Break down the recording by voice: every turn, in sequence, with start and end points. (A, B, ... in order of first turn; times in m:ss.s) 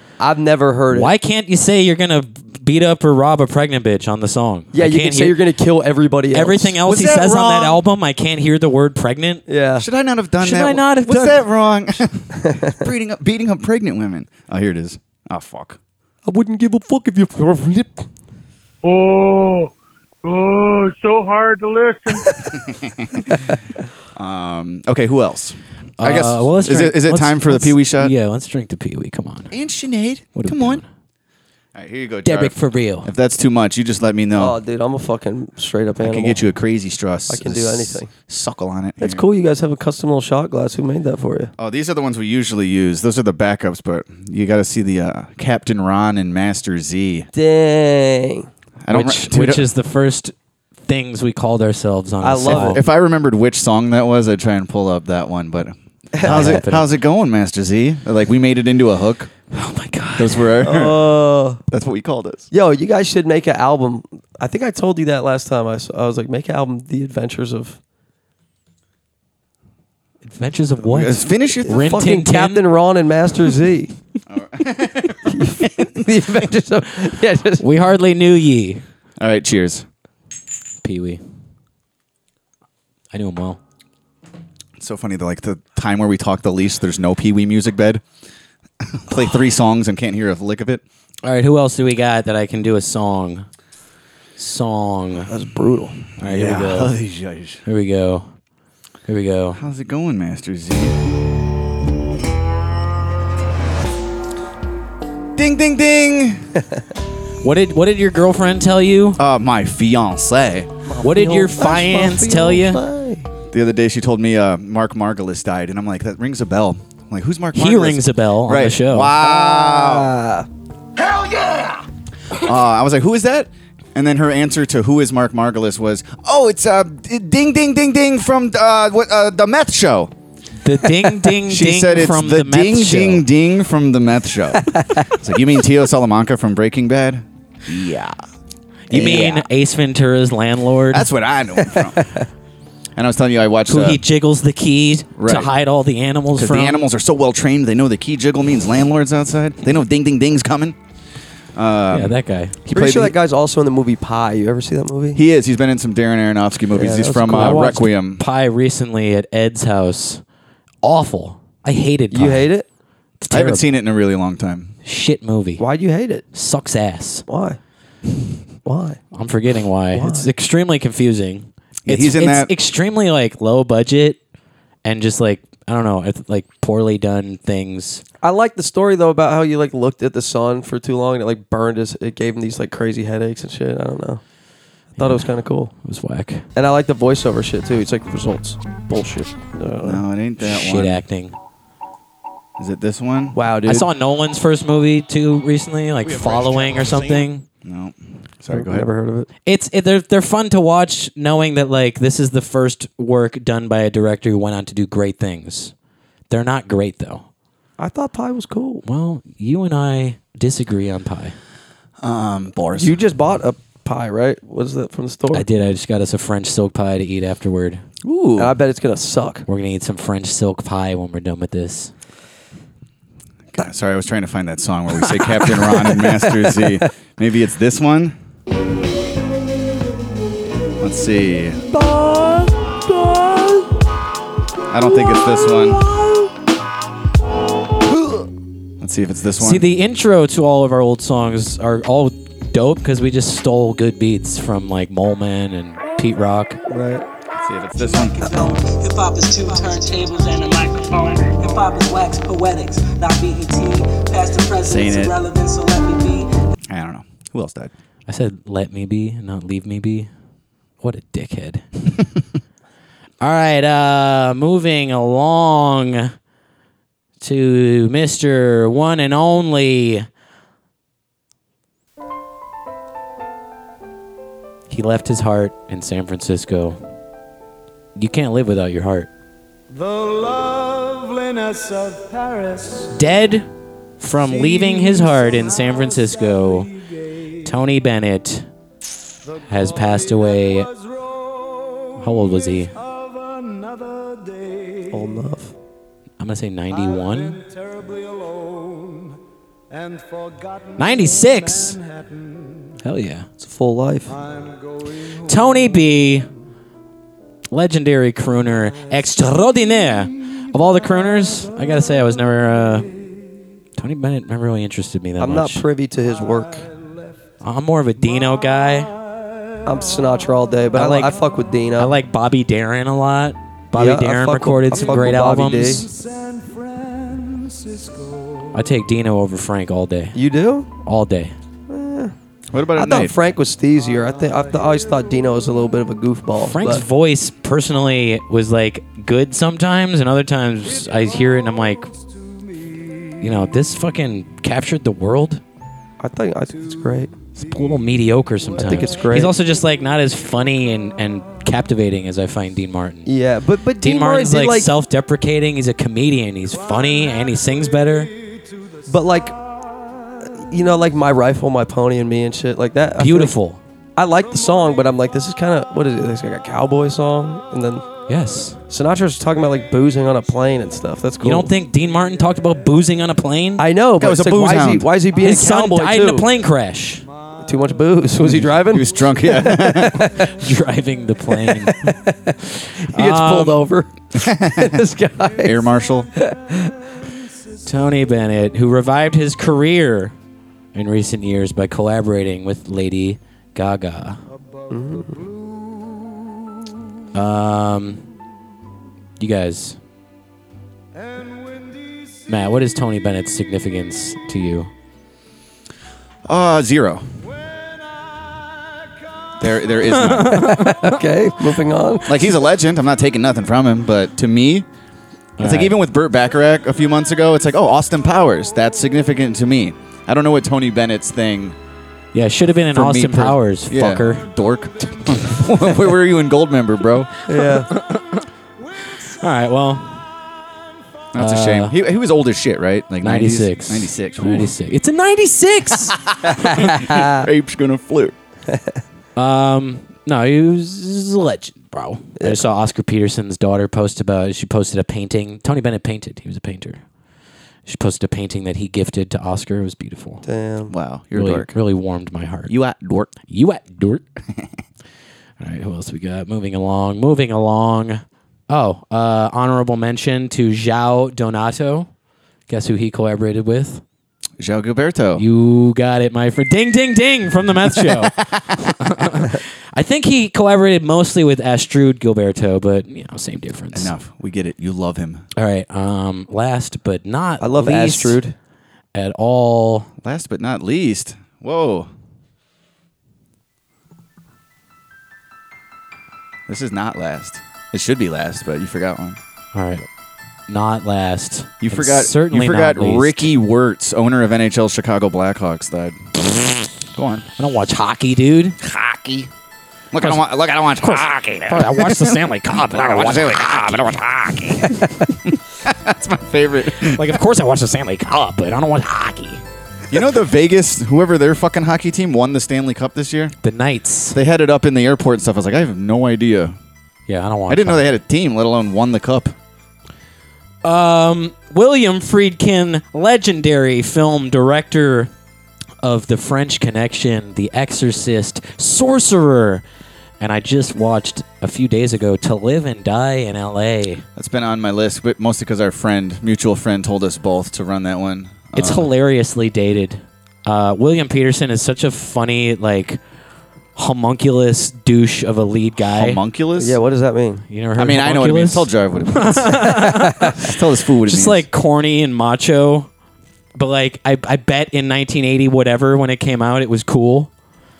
0:00.2-0:01.1 A
0:00.9-0:05.4 B
0:04.7-0:06.7 A
0:06.3-0:09.4 B
0:06.8-0:07.8 C
0:09.5-0:09.8 A
0:09.8-0:15.8 C
0:10.4-0:11.5 B
0:12.4-0:12.8 A
0:16.2-0:18.0 A
0:18.8-0:19.7 D
0:20.2-0:22.3 D
0:22.8-0:23.2 C
0:24.1-0:28.1 C
0:26.0-0:29.5 B
0:29.5-0:30.8 C
0:30.4-0:30.8 B
0:31.7-0:34.6 C
0:32.2-0:33.1 B
0:34.4-0:36.4 A
0:36.0-0:39.2 C
0:37.3-0:38.1 A
0:39.0-0:41.5 A
0:41.6-0:47.3 C
0:47.3-0:48.5 A
0:48.8-0:49.6 C
0:48.9-0:50.3 B
0:50.9-0:52.8 B
0:52.2-0:52.8 A
0:52.5-0:59.3 C
0:56.1-0:56.6 A
0:56.2-0:56.8 B
0:59.5-1:00.5 B
1:00.2-1:01.1 C
1:00.6-1:01.6 A
1:01.7-1:02.5 C
1:02.5-1:07.8 A
1:10.3-1:12.6 B
1:10.8-1:11.8 C
1:11.6-1:13.9 A
1:14.3-1:16.0 C
1:15.2-1:17.6 A
1:17.6-1:18.8 B
1:19.2-1:19.8 C
1:20.8-1:21.2 B
1:23.1-1:23.6 B
1:24.8-1:28.0 C
1:28.9-1:30.8 C
1:31.2-1:33.4 B
1:34.4-1:35.3 B
1:35.3-1:36.0 A
1:36.2-1:37.6 C
1:36.2-1:36.9 B
1:37.6-1:38.2 B
1:39.1-1:39.6 B
1:39.6-1:41.0 C
1:45.4-1:46.4 C
1:47.4-1:49.2 B
1:49.2-1:50.7 C
1:50.9-1:53.3 A
1:51.0-1:52.8 B
1:53.5-2:00.1 C
1:57.5-1:59.1 B
1:59.2-2:00.4 A
2:02.3-2:10.1 C
2:10.6-2:13.2 B
2:11.4-2:18.2 C
2:14.7-2:15.0 A
2:18.9-2:21.1 B
2:18.9-2:19.5 C
2:20.9-2:22.1 C
2:21.6-2:22.3 A
2:23.0-2:24.0 C
2:23.7-2:26.8 B
2:25.2-2:25.5 C
2:26.4-2:30.8 C
2:31.5-2:33.1 C
2:31.9-2:32.6 B
2:32.7-2:35.2 A
2:35.1-2:38.2 C
2:36.7-2:37.8 A
2:37.3-2:40.2 B
2:40.8-2:42.5 B
2:42.1-2:42.6 A
2:43.2-2:43.6 B
2:43.3-2:44.7 C
2:44.8-2:45.6 B
2:45.6-2:46.2 A
2:46.3-2:47.2 B
2:47.3-2:47.6 A
2:48.6-2:49.0 A
2:49.1-2:54.2 B
2:49.9-2:50.3 A
2:51.8-2:52.5 C
2:54.8-2:58.0 B
2:58.2-3:04.2 A
3:05.0-3:06.4 B
3:05.0-3:05.7 A
3:06.6-3:10.0 A
3:09.8-3:11.0 C
3:10.4-3:11.4 B
3:12.6-3:13.4 C
3:13.3-3:13.9 A
3:13.6-3:17.4 B
3:16.2-3:16.9 C
3:17.6-3:18.9 C
3:18.5-3:19.3 A
3:19.4-3:25.7 B
3:26.3-3:27.2 B
3:27.8-3:28.8 A
3:28.8-3:31.3 B
3:32.0-3:33.0 C
3:32.7-3:35.4 A
3:35.3-3:37.8 B
3:38.0-3:38.5 C
3:38.4-3:39.4 A
3:39.5-3:41.9 B
3:43.5-3:48.2 C
3:45.2-3:45.5 B
3:50.8-3:51.6 C
3:51.7-3:53.7 A
3:54.7-3:55.8 C
3:55.7-3:56.3 A
3:57.9-3:58.2 A
3:58.8-3:59.6 C
3:59.4-4:06.6 B
4:06.7-4:07.0 A
4:07.4-4:08.6 C
4:07.8-4:16.3 E
4:14.6-4:15.2 C
4:16.7-4:17.7 C
4:18.1-4:20.1 B
4:20.8-4:21.6 B
4:23.2-4:26.1 B
4:27.2-4:30.0 B
4:34.7-4:36.8 B
4:38.0-4:39.1 B
4:42.9-4:43.4 B
4:44.0-4:46.8 B
4:47.4-4:48.5 B
4:49.4-4:50.7 B
4:52.0-4:52.7 B
4:54.9-4:55.5 A
4:56.2-4:57.4 B
5:00.8-5:01.8 B
5:02.8-5:03.3 B
5:03.4-5:04.2 A
5:05.2-5:06.3 B
5:07.5-5:12.9 B
5:13.8-5:15.6 B
5:15.2-5:16.7 A
5:17.4-5:18.9 B
5:19.6-5:21.9 A
5:20.7-5:21.1 B
5:21.8-5:25.9 B
5:23.8-5:25.9 A
5:28.5-5:30.2 B
5:30.1-5:30.7 A
5:30.8-5:31.3 B
5:31.7-5:32.1 A
5:32.5-5:33.1 C
5:32.8-5:36.8 A
5:36.4-5:41.9 B
5:43.2-5:45.4 B
5:46.0-5:47.1 A
5:47.4-5:53.1 B
5:48.6-5:49.3 A
5:53.0-5:54.7 A
5:53.8-5:58.1 B
5:58.8-5:59.4 A
6:00.4-6:03.3 A
6:03.0-6:03.6 B
6:04.0-6:07.8 A
6:08.1-6:08.6 B
6:08.7-6:11.5 A
6:11.2-6:13.6 B
6:13.6-6:16.2 A
6:14.0-6:14.9 C
6:15.2-6:17.0 B
6:17.4-6:20.3 A
6:18.2-6:20.0 C
6:20.2-6:21.9 B
6:21.3-6:25.6 A
6:22.9-6:23.6 B
6:24.2-6:24.8 C
6:25.4-6:26.1 C
6:26.2-6:26.7 A
6:27.6-6:30.1 B
6:30.7-6:34.2 B
6:34.7-6:35.2 A
6:37.1-6:38.0 B
6:39.2-6:39.8 B
6:42.3-6:44.7 B
6:46.2-6:47.0 C
6:49.4-6:50.5 C
6:49.9-6:51.0 B
6:50.3-6:52.2 A
6:52.1-6:54.6 C
6:55.4-6:55.7 B
6:55.4-7:01.6 C
7:02.1-7:04.3 B
7:02.7-7:07.1 C
7:07.3-7:07.7 A
7:07.4-7:08.3 B
7:08.9-7:10.0 B
7:11.1-7:14.5 C
7:11.2-7:11.7 B
7:13.0-7:16.0 B
7:16.1-7:18.1 C
7:16.9-7:17.2 A
7:18.5-7:18.8 A
7:19.2-7:26.8 B
7:22.2-7:22.4 A
7:27.6-7:30.2 B
7:30.2-7:30.7 A
7:30.7-7:31.5 C
7:31.1-7:32.5 B
7:32.5-7:33.1 C
7:33.3-7:34.0 B
7:35.4-7:41.9 B
7:42.5-7:43.8 B
7:44.4-7:45.2 C
7:45.2-7:53.9 B
7:47.8-7:48.7 C
7:53.7-7:55.2 C
7:55.4-7:58.2 B
7:57.4-7:58.3 A
7:58.9-7:59.9 B
8:00.0-8:01.9 C
8:06.5-8:09.2 C
8:09.5-8:09.8 B
8:10.5-8:13.3 B
8:11.6-8:16.0 C
8:16.9-8:17.2 C
8:17.4-8:18.6 B
8:18.6-8:19.3 C
8:19.9-8:24.7 C
8:20.8-8:25.0 B
8:25.6-8:27.0 C
8:26.8-8:29.4 B
8:29.9-8:33.4 C
8:33.4-8:34.2 B
8:34.1-8:36.6 C
8:37.1-8:37.9 B
8:37.5-8:39.3 C
8:40.6-8:45.1 B
8:45.8-8:49.6 B
8:50.2-8:54.0 B
8:54.2-8:58.9 C
8:58.5-9:03.0 B
9:03.8-9:06.2 B
9:05.9-9:06.8 C
9:06.6-9:07.4 A
9:07.5-9:12.9 B
9:07.8-9:11.4 C
9:13.6-9:17.3 B